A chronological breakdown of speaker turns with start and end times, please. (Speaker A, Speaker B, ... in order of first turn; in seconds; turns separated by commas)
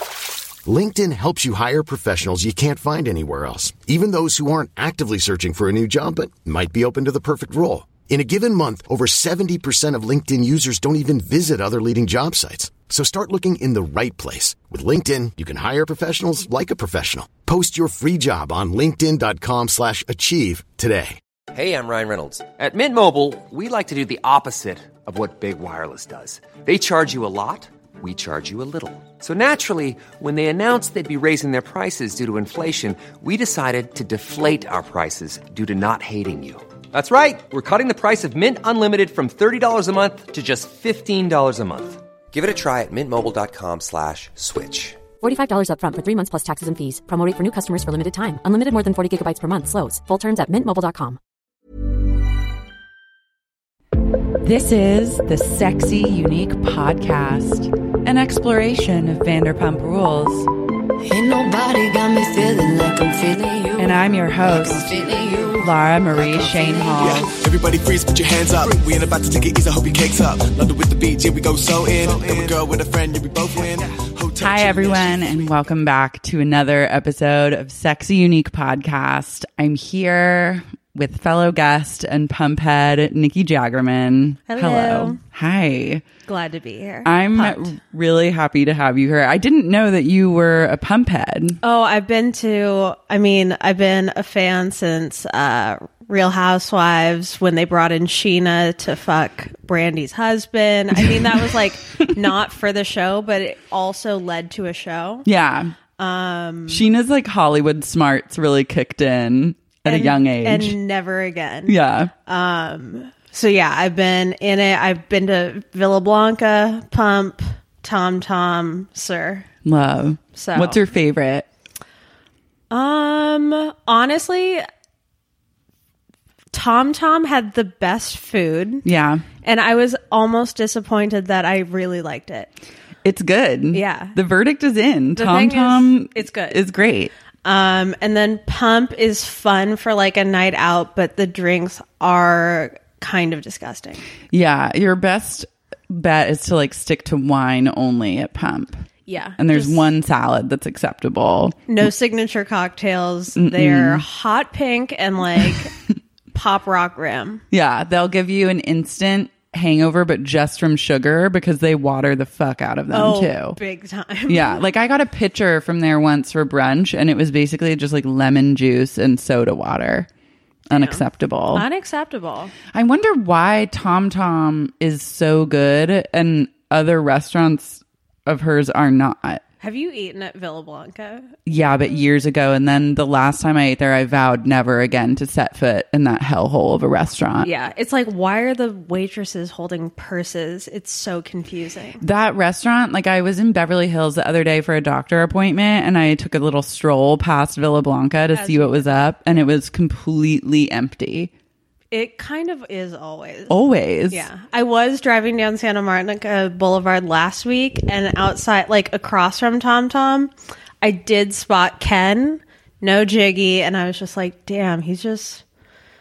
Speaker A: 0.6-21.2, Speaker B: 21.5-45.0, Speaker C: 45.2-51.2, Speaker D: 54.4-60.5, Speaker E: 61.0-67.0, Speaker D: 63.8-64.9, Speaker D: 65.5-67.3, Speaker F: 66.5-75.5, Speaker D: 74.4-86.0, Speaker G: 84.5-85.2, Speaker G: 86.2-87.7, Speaker D: 87.0-91.6, Speaker G: 91.6-105.3, Speaker D: 101.1-101.4, Speaker D: 105.2-105.7, Speaker G: 106.0-106.8, Speaker D: 106.7-110.8, Speaker G: 109.8-111.7, Speaker D: 111.7-112.1, Speaker G: 112.2-119.5, Speaker D: 119.6-121.5, Speaker G: 120.3-120.8, Speaker G: 122.7-124.6, Speaker G: 126.5-128.8, Speaker D: 128.8-129.2, Speaker G: 129.4-132.5, Speaker D: 133.0-137.1, Speaker G: 133.7-134.2, Speaker G: 135.2-136.6, Speaker G: 137.4-144.0, Speaker D: 144.3-148.8, Speaker G: 149.1-149.9, Speaker D: 149.4-151.6, Speaker G: 151.7-155.7, Speaker D: 153.4-154.0, Speaker G: 156.3-157.4, Speaker D: 157.5-163.6, Speaker G: 162.9-164.6, Speaker D: 164.3-170.1, Speaker D: 170.7-171.6, Speaker G: 170.7-171.0, Speaker G: 171.5-172.5, Speaker D: 172.7-179.4, Speaker G: 179.6-181.3, Speaker D: 181.4-187.5, Speaker G: 187.4-192.0, Speaker D: 192.0-201.3, Speaker G: 198.3-198.9, Speaker G: 201.9-203.6, Speaker D: 203.5-204.3, Speaker G: 204.1-215.4